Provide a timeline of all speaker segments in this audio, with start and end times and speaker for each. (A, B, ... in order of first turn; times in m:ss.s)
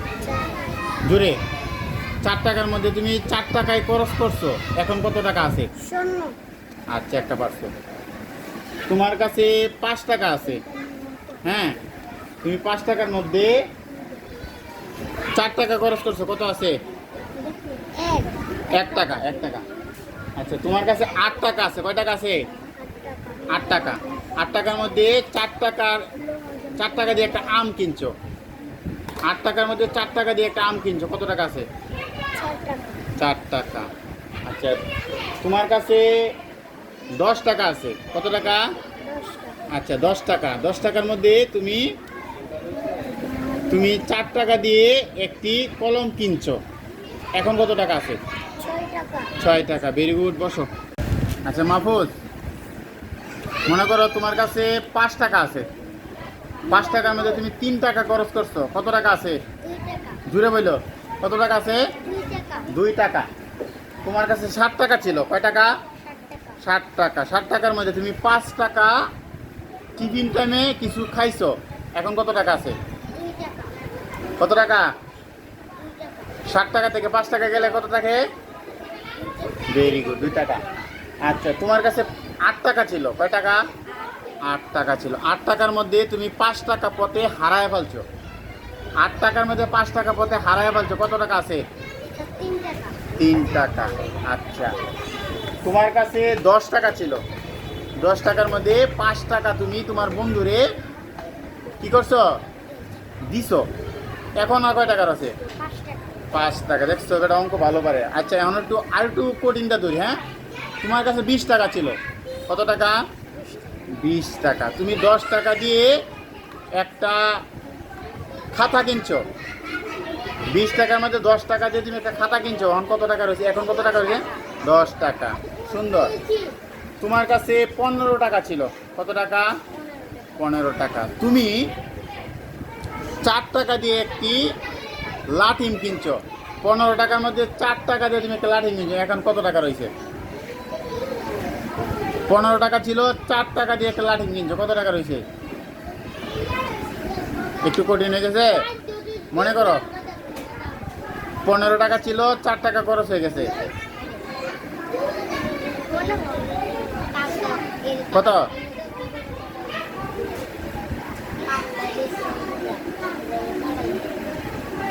0:00.2-0:00.7 A
0:01.1-0:01.4 B
0:02.2-0:05.7 B
0:05.8-0:06.4 A
0:06.9-0:07.7 B
0:08.9-0:10.6 B
0:11.4-0:11.8 B
0:12.4-0:13.6 B
0:15.4-0:16.8 B
0:17.5-0:19.4 A
0:18.7-0:19.6 B
0:20.4-0:22.4 B
0:22.8-0:25.0 A
0:23.5-0:26.1 B
0:26.4-0:26.7 A
0:26.8-0:28.1 B
0:29.3-0:31.7 B
0:32.4-0:32.9 A
0:33.2-0:33.9 B
0:34.5-0:34.8 B
0:35.4-0:36.3 B
0:37.2-0:38.6 B
0:39.1-0:39.6 A
0:39.7-0:41.9 B
0:43.7-0:46.6 B
0:47.4-0:48.2 B
0:48.6-0:49.4 A
0:49.4-0:50.7 B
0:51.5-0:52.1 B
0:53.7-0:55.7 B
0:56.7-0:57.4 A
0:56.7-0:59.4 B
0:59.6-1:00.2 A
1:00.3-1:01.8 B
1:02.0-1:02.7 A
1:02.7-1:03.3 B
1:04.0-1:05.7 B
1:06.0-1:06.6 A
1:06.6-1:08.9 B
1:10.0-1:12.8 B
1:13.1-1:13.8 A
1:14.4-1:14.8 B
1:15.8-1:16.4 A
1:16.5-1:18.2 B
1:19.2-1:20.5 A
1:19.7-1:20.7 B
1:21.3-1:23.6 B
1:24.1-1:24.4 A
1:24.4-1:28.0 B
1:29.0-1:31.6 B
1:32.0-1:33.0 A
1:33.2-1:34.8 B
1:35.6-1:37.2 B
1:38.0-1:40.6 B
1:41.8-1:42.2 B
1:43.2-1:43.6 B
1:44.4-1:45.4 B
1:45.4-1:46.3 A
1:46.3-1:50.2 B
1:50.8-1:52.0 B
1:52.5-1:53.0 B
1:53.3-1:53.9 A
1:54.0-1:55.9 B
1:56.8-1:57.2 B
1:58.6-1:59.2 B
2:00.5-2:06.1 B
2:05.6-2:06.6 A
2:07.0-2:09.5 B
2:09.8-2:10.3 A
2:10.4-2:11.6 B
2:13.2-2:14.4 B
2:15.4-2:19.9 B
2:22.3-2:25.2 B
2:27.0-2:27.7 A
2:27.6-2:28.5 B
2:28.6-2:30.9 A
2:29.3-2:29.8 B
2:31.4-2:33.6 B
2:33.4-2:34.3 A
2:35.3-2:40.2 A
2:38.1-2:38.5 B
2:41.4-2:44.3 A